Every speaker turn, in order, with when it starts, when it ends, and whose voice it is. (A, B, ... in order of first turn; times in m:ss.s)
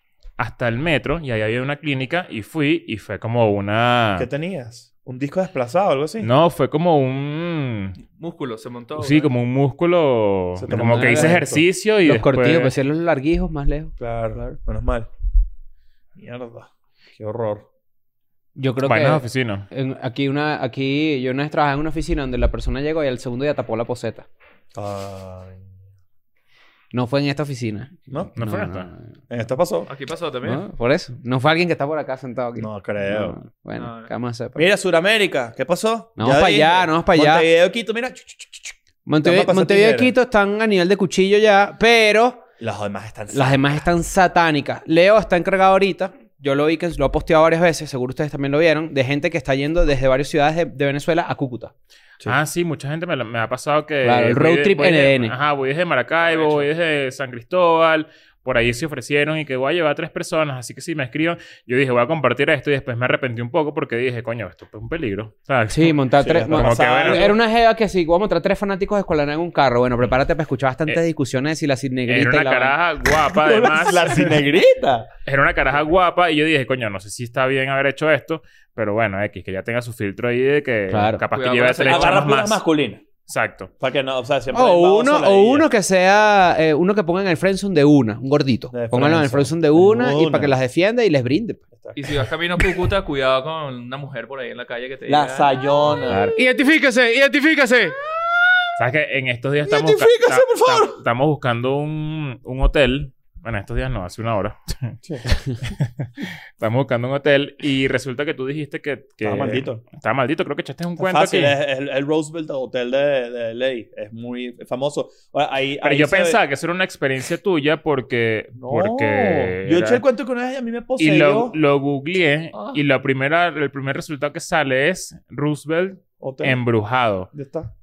0:00.4-0:04.3 A
0:04.2-0:06.3 B
0:06.2-0:08.0 A
0:08.0-0:09.3 C
0:08.9-0:12.7 A
0:10.6-0:11.6 B
0:10.7-0:11.4 D
0:12.0-0:14.6 D
0:14.0-0:15.1 B
0:16.2-0:17.6 B
0:18.6-0:24.3 D
0:18.8-0:19.7 A
0:24.7-0:25.6 B
0:26.9-0:29.1 D
0:28.4-0:28.9 A
0:29.3-0:29.9 B
0:29.8-0:30.6 C
0:30.4-0:34.7 D
0:32.6-0:33.4 B
0:33.8-0:34.1 C
0:34.6-0:40.1 B
0:36.2-0:37.5 D
0:39.0-0:42.4 D
0:42.6-0:43.8 B
0:43.3-0:51.7 D
0:52.2-1:06.0 A
0:54.0-0:55.3 D
0:56.2-0:56.6 C
1:05.7-1:12.8 D
1:06.2-1:07.3 B
1:06.5-1:07.4 A
1:12.1-1:14.4 A
1:13.1-1:15.1 B
1:15.2-1:22.6 A
1:20.9-1:21.2 D
1:21.3-1:22.3 C
1:21.8-1:23.0 B
1:23.2-1:23.7 A
1:23.8-1:25.7 B
1:24.5-1:31.6 D
1:28.7-1:30.5 B
1:31.7-1:32.0 B
1:32.0-1:35.5 C
1:35.1-1:36.3 B
1:36.1-1:37.9 D
1:38.8-1:51.6 A
1:39.7-1:41.0 B
1:49.2-1:49.8 B
1:51.0-1:56.4 B
1:55.8-2:00.0 A
1:58.6-2:01.6 B
2:01.0-2:07.3 A
2:02.5-2:02.8 C
2:06.2-2:06.6 B
2:07.3-2:07.7 B